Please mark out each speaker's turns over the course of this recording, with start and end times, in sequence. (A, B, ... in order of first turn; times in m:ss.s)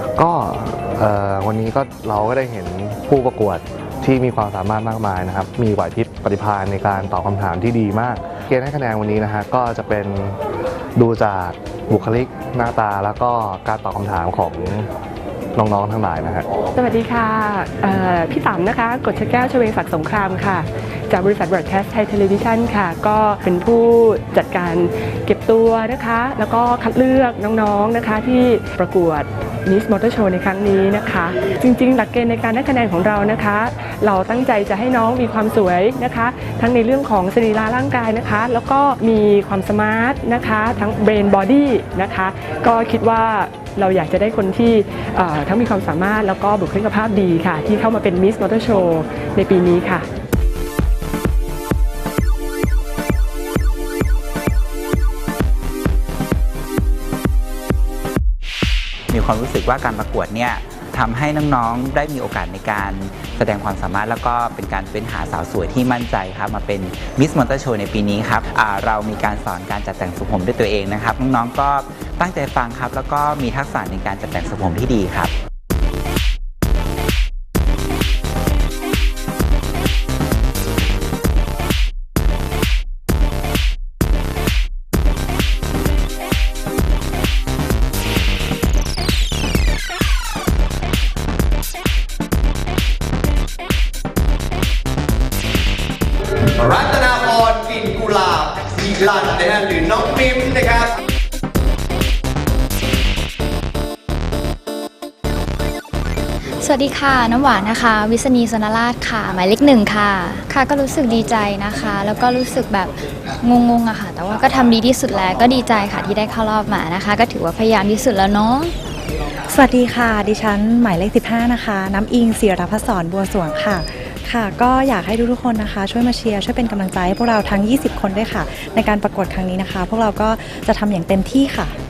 0:00.2-0:10.4 A
0:11.0-0:14.9 A
0:15.6-0:16.4 A
0:16.7-0:50.0 B
0:59.1-1:15.3 C
1:36.5-1:40.9 D
1:46.6-1:58.7 E
1:59.5-2:11.7 F